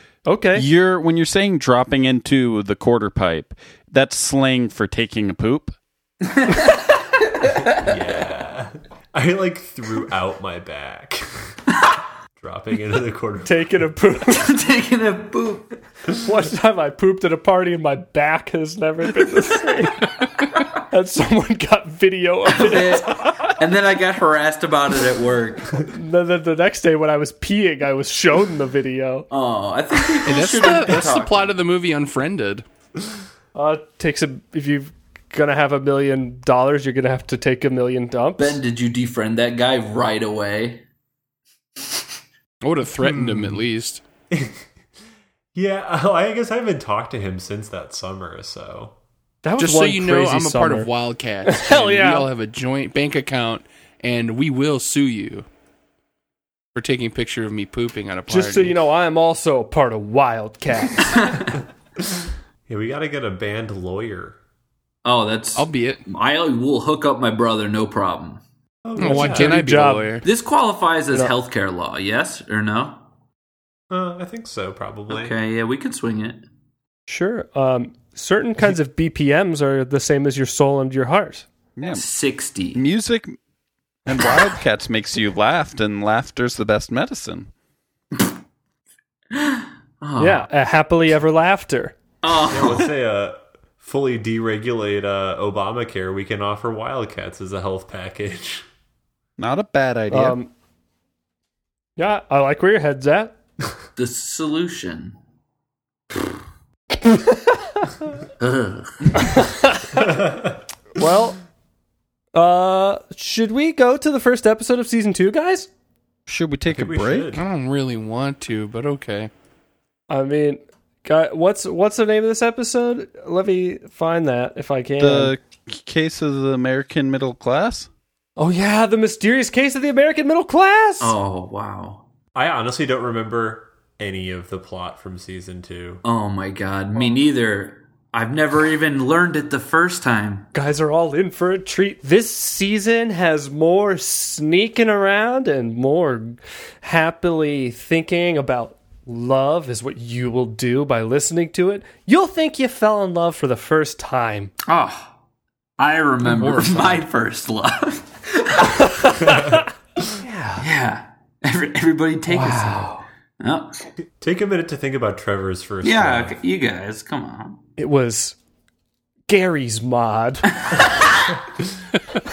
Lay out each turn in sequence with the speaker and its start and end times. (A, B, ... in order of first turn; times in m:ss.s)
0:00.3-0:00.7 A
0:00.6-0:05.7 B
0:06.4-0:06.7 C
0:07.8-0:11.2 D
0:12.4-0:13.7 D
0:13.4-0:14.6 A
0:14.3-0:15.8 C
0:16.2-0:20.0 A
0:20.9-0:23.3 A
0:22.5-0:25.9 C
0:25.9-0:29.3 A
0:29.3-0:31.6 C
0:30.2-0:32.6 E
0:33.6-0:38.6 A
0:38.4-0:40.8 C
0:42.6-0:44.0 E
0:43.0-0:43.6 D
0:44.3-0:44.6 D
0:45.6-0:48.9 D
0:49.4-0:50.9 A
0:49.6-0:55.5 E
0:51.4-0:52.3 A
0:56.7-0:58.8 E
0:58.3-1:01.2 A
1:02.7-1:04.4 D
1:05.0-1:08.4 C
1:05.6-1:06.0 E
1:08.9-1:09.5 D
1:09.0-1:10.3 E
1:09.0-1:10.2 A
1:10.2-1:13.0 C
1:13.9-1:15.3 D
1:15.1-1:16.4 C
1:17.1-1:21.5 A
1:21.8-1:22.0 B
1:21.8-1:22.8 C
1:22.7-1:23.4 B
1:24.1-1:27.5 B
1:29.4-1:30.5 C
1:30.2-1:32.0 A
1:32.2-1:32.9 C
1:32.5-1:38.6 D
1:39.4-1:40.4 B
1:40.1-1:40.5 A
1:42.0-1:43.4 A
1:44.0-1:45.2 C
1:48.4-1:49.2 C
1:49.2-1:50.1 A
1:51.0-1:51.4 A
1:52.3-1:55.7 A
1:56.3-1:57.4 B
1:56.7-1:57.4 D
1:57.3-1:59.3 E
2:00.1-2:05.3 A
2:05.0-2:07.9 B
2:08.4-2:11.2 A
2:11.0-2:12.0 C
2:12.4-2:16.0 D
2:16.0-2:20.5 C
2:20.5-2:34.5 A
2:34.7-2:35.1 C
2:35.8-2:38.9 C
2:36.2-2:37.1 E
2:40.2-2:40.7 A
2:40.6-2:43.8 C
2:42.3-2:43.0 A
2:44.2-2:46.4 D
2:45.8-2:47.6 C
2:47.8-2:48.4 A
2:49.3-2:50.6 A